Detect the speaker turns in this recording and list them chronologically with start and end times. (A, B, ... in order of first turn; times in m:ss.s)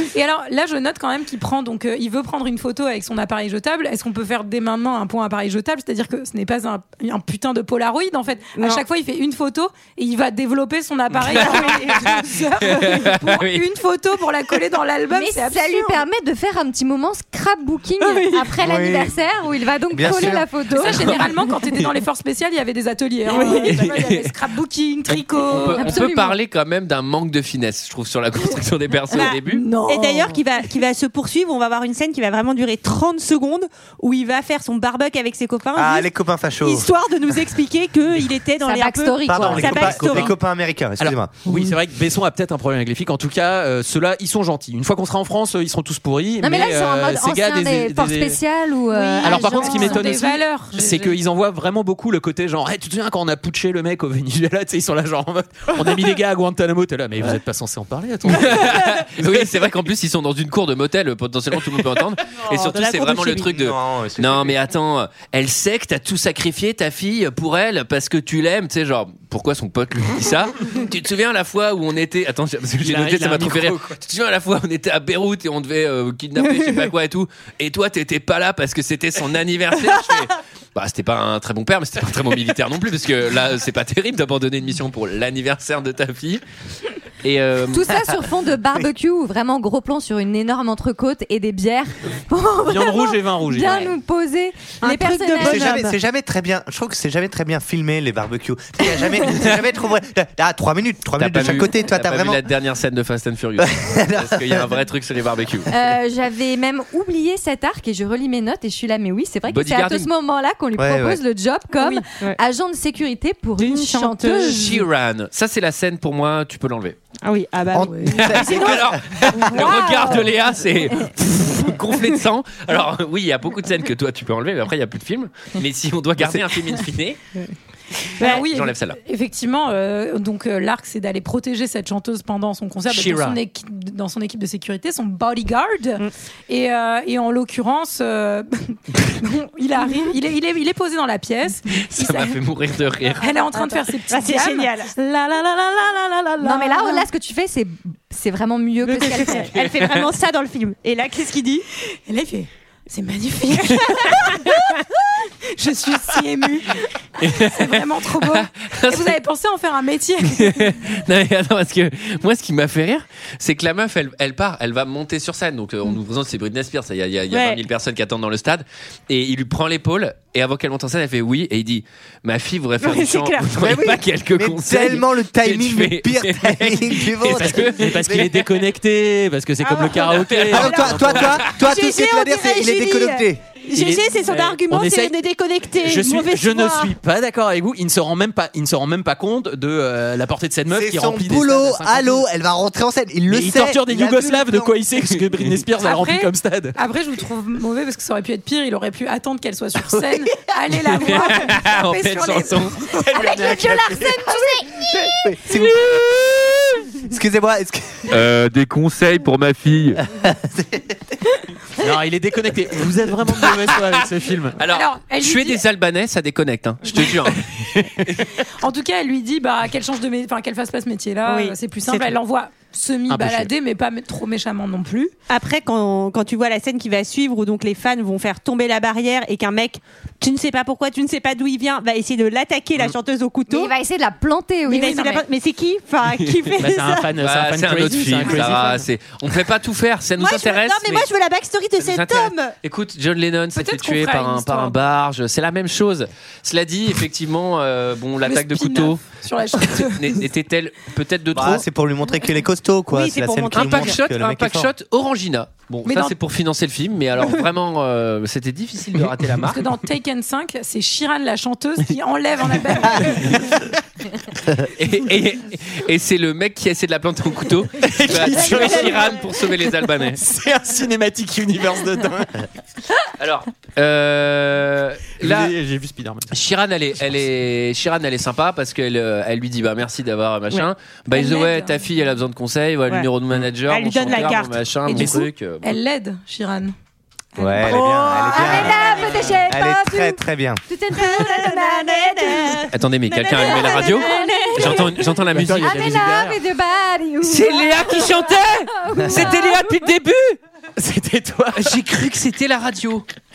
0:00.1-0:16.0 A
0:08.6-0:08.8 B
0:11.3-0:13.7 C
0:15.1-0:21.3 D
0:18.0-0:18.6 B
0:18.6-0:19.2 E
0:19.9-0:20.5 E
0:20.7-0:26.0 A
0:20.8-0:21.9 C
0:23.2-0:23.9 B
0:23.6-0:24.4 C
0:25.1-0:29.6 C
0:25.7-0:26.4 D
0:29.1-0:30.4 D
0:29.1-0:36.1 B
0:35.7-0:36.9 E
0:36.6-0:40.3 B
0:38.6-0:40.1 D
0:39.3-0:41.4 E
0:40.0-0:40.3 F
0:41.0-0:48.4 F
0:46.4-0:50.1 D
0:48.9-0:49.3 B
0:49.1-0:51.2 A
0:49.2-0:59.5 F
0:58.2-1:26.4 C
1:02.6-1:03.3 B
1:02.9-1:04.6 E
1:12.8-1:13.9 F
1:27.2-1:27.8 C
1:27.7-1:35.8 D
1:32.6-1:33.9 F
1:34.8-1:36.0 B
1:35.4-1:42.4 E
1:41.2-1:45.7 C
1:43.6-1:44.8 E
1:45.7-1:54.8 D
1:49.5-1:50.1 C
1:50.8-1:51.2 E
1:53.6-1:54.6 B
1:54.4-1:57.0 C
1:57.2-1:58.7 B
1:57.7-1:59.2 E
1:57.8-1:58.8 A
1:58.1-2:07.2 C
1:59.5-2:00.4 D
2:08.2-2:08.4 B
2:08.2-2:22.4 A
2:08.2-2:09.0 C
2:12.9-2:13.4 C
2:21.7-2:23.4 C
2:23.2-2:24.8 A
2:23.5-2:27.1 B
2:26.4-2:29.5 D
2:28.8-2:31.7 B
2:29.5-2:30.0 C
2:32.0-2:34.7 A
2:33.6-2:34.6 B
2:35.5-2:40.8 A
2:37.2-2:39.2 C
2:40.3-2:58.4 C
2:47.3-2:47.6 B
2:52.8-2:53.5 B
2:53.5-2:58.4 E
2:57.3-3:01.4 F
2:59.6-3:07.0 B
3:00.1-3:01.2 C
3:00.5-3:03.4 E
3:03.7-3:05.1 F
3:05.8-3:12.2 F
3:10.7-3:14.7 E
3:13.3-3:16.8 F
3:15.8-3:22.9 A
3:21.0-3:22.9 C
3:23.0-3:24.2 F
3:23.0-3:24.9 D
3:24.5-3:26.4 E
3:27.0-3:28.2 E
3:28.1-3:30.0 C
3:30.0-3:31.0 E
3:31.8-3:34.6 F
3:34.6-3:38.3 C
3:34.6-3:35.6 A
3:37.8-3:38.1 F
3:38.6-3:45.1 A
3:41.2-3:42.0 B
3:43.1-3:43.5 F
3:45.3-3:53.7 B
3:53.5-3:55.2 D
3:54.7-3:57.1 B
3:56.6-3:58.9 F
3:57.2-4:01.1 C
4:00.2-4:02.5 B
4:01.8-4:09.0 C
4:03.5-4:04.8 A
4:08.2-4:10.2 A
4:09.6-4:11.6 C
4:11.3-4:14.7 E
4:12.9-4:14.0 B
4:13.5-4:19.6 C
4:15.8-4:16.1 A
4:19.4-4:23.6 A
4:24.7-4:30.2 C
4:27.8-4:29.2 F
4:30.1-4:32.4 F
4:33.2-4:35.5 C
4:35.2-4:36.3 F
4:36.3-4:45.8 C
4:41.1-4:41.7 A
4:43.7-4:44.6 B
4:44.8-4:46.7 A
4:47.4-4:47.7 A
4:47.4-4:50.6 E
4:47.6-4:49.2 B
4:48.3-4:55.1 D
4:50.9-4:55.0 B
4:52.7-4:55.8 C
4:55.3-4:56.4 F
4:55.6-4:59.9 D
4:57.2-5:00.4 C
5:00.8-5:01.8 F
5:01.5-5:03.0 C